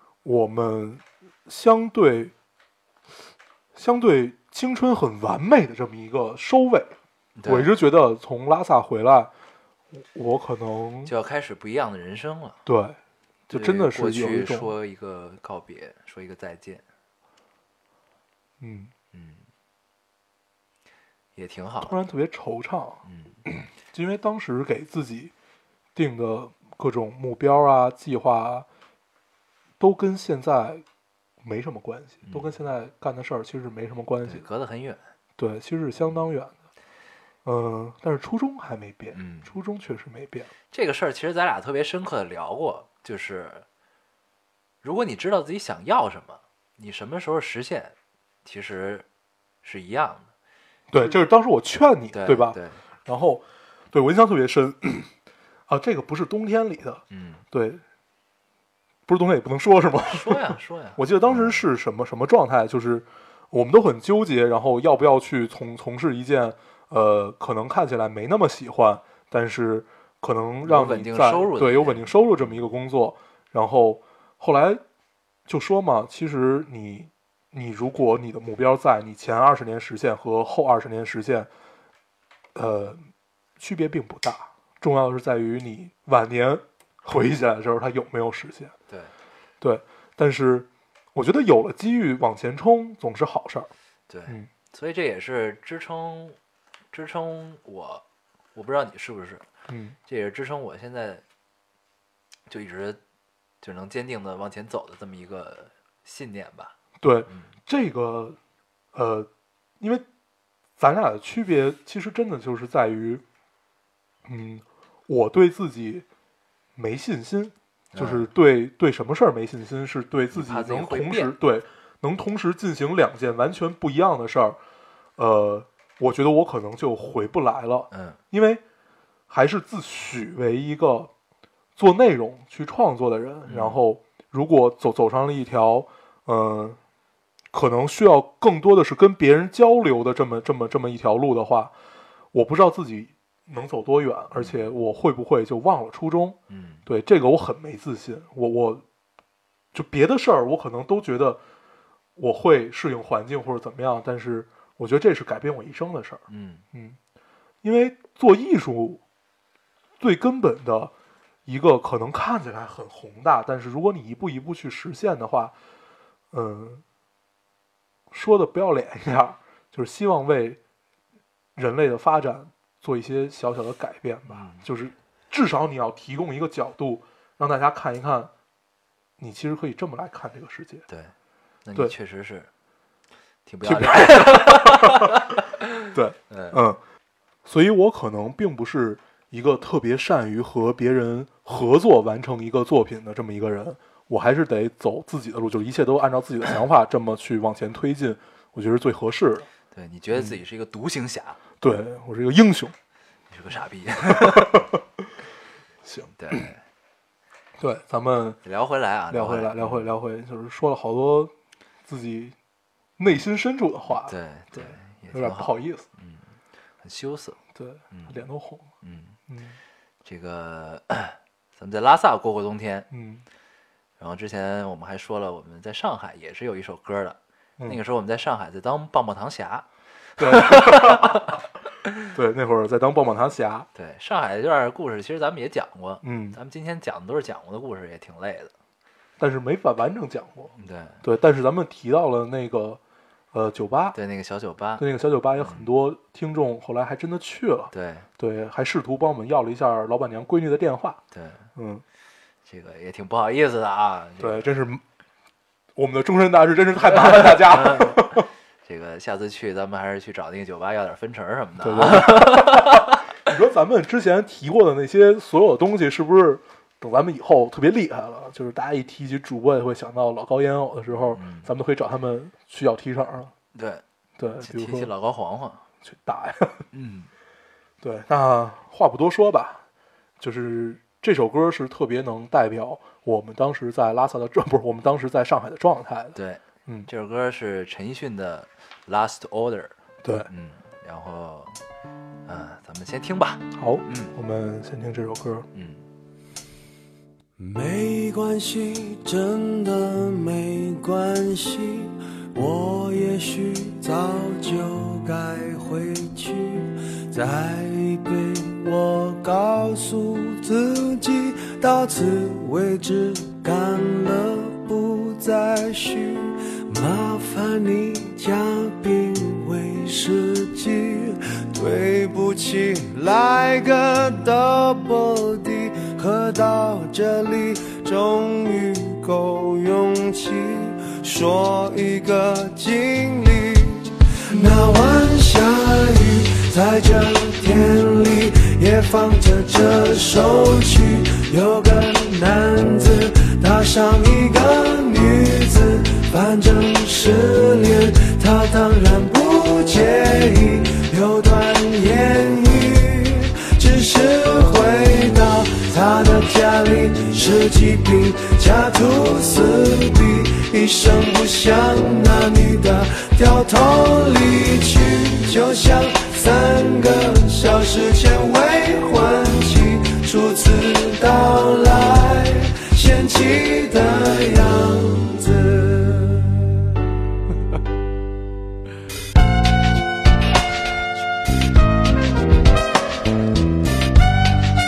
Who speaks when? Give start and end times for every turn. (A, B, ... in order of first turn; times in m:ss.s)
0:00.2-0:02.3 A
0:03.7-0:06.9 A
0:07.4-0:07.7 B
0:07.4-0:09.3 A
0:09.9-0:11.1 A
0:11.0-0:12.6 B
0:12.6-0:13.0 A
0:13.5-0:14.7 A
0:13.5-0:16.8 B
0:18.6-0:18.9 A
0:19.1-0:19.4 B
0:21.4-0:22.0 B
0:21.8-0:25.3 A
0:23.0-0:23.4 B
0:25.9-0:28.6 A
0:29.8-0:30.8 A
0:31.4-0:34.4 A
0:32.2-0:32.5 B
0:34.2-0:35.0 B
0:35.4-0:36.5 A
0:37.4-0:40.5 A
0:39.1-0:39.5 B
0:40.7-0:43.6 B
0:44.8-0:49.0 B
0:49.6-0:50.3 B
0:50.9-0:55.1 A
0:52.1-0:52.8 B
0:55.7-0:57.8 A
0:57.1-0:57.4 B
0:59.1-1:14.8 A
1:00.1-1:01.6 B
1:10.6-1:12.5 B
1:15.4-1:21.5 A
1:22.5-1:28.7 A
1:29.6-1:33.7 A
1:34.1-1:36.4 B
1:36.9-1:38.0 B
1:38.5-1:39.4 B
1:39.7-1:40.0 A
1:40.1-1:41.2 B
1:42.5-1:43.0 B
1:43.6-1:46.7 B
1:47.0-1:48.4 A
1:48.9-1:49.3 A
1:49.8-1:50.0 A
1:50.8-1:53.2 A
1:54.2-1:56.0 A
1:56.8-2:04.6 A
1:57.9-1:58.3 B
2:00.3-2:01.3 B
2:05.2-2:08.6 A
2:07.9-2:08.2 B
2:09.3-2:11.1 A
2:11.8-2:16.8 A
2:13.5-2:13.8 B
2:17.5-2:21.7 A
2:22.3-2:28.8 A
2:24.3-2:24.6 B
2:26.5-2:26.8 B
2:29.7-2:31.4 A
2:32.2-2:37.0 A
2:36.3-2:36.6 B
2:37.6-2:39.0 A
2:40.0-2:40.9 A
2:41.4-2:45.5 A
2:46.3-2:46.8 A
2:48.1-2:50.6 A
2:51.6-2:58.3 A
2:54.3-2:54.6 B
2:59.2-3:00.8 A
3:00.9-3:01.1 B
3:01.6-3:02.5 B
3:03.4-3:05.3 B
3:03.6-3:05.3 A
3:05.9-3:06.8 A
3:06.3-3:06.6 B
3:07.4-3:19.5 A
3:19.7-3:21.4 B
3:21.6-3:22.7 A
3:23.3-3:24.7 B
3:24.1-3:25.0 A
3:25.8-3:26.4 A
3:26.1-3:26.6 B
3:27.6-3:28.4 A
3:28.4-3:29.9 B
3:29.1-3:31.3 A
3:31.9-3:32.3 A
3:33.0-3:35.8 A
3:34.0-3:36.2 B
3:36.8-3:37.4 B
3:37.5-3:38.7 A
3:37.9-3:38.2 B
3:38.8-3:39.2 B
3:39.3-3:39.6 A
3:40.0-3:42.9 B
3:42.9-3:43.2 A
3:44.0-3:49.6 B
3:50.2-3:51.4 B
3:50.2-3:51.4 A
3:52.1-3:53.7 A
3:53.7-3:58.5 B
3:56.0-3:56.4 A
3:59.2-4:02.8 A
4:00.6-4:01.0 B
4:03.3-4:04.0 A
4:03.9-4:04.8 B
4:04.8-4:11.0 A
4:05.4-4:05.7 B
4:07.7-4:08.1 B
4:11.1-4:11.5 B
4:11.6-4:11.8 A
4:12.4-4:14.4 B
4:14.2-4:14.8 A
4:15.8-4:18.3 A
4:16.8-4:23.0 B
4:21.6-4:33.3 A
4:31.1-4:31.5 B
4:33.5-4:33.8 B
4:34.2-4:34.9 A
4:34.4-4:35.6 B
4:35.8-4:36.6 A
4:36.7-4:37.1 B
4:37.8-4:39.6 A
4:40.2-4:46.9 A
4:46.1-4:51.6 B
4:50.0-4:50.3 A
4:52.2-4:54.1 B
4:53.5-4:55.5 A
4:55.5-4:55.8 B
4:57.4-6:16.6 C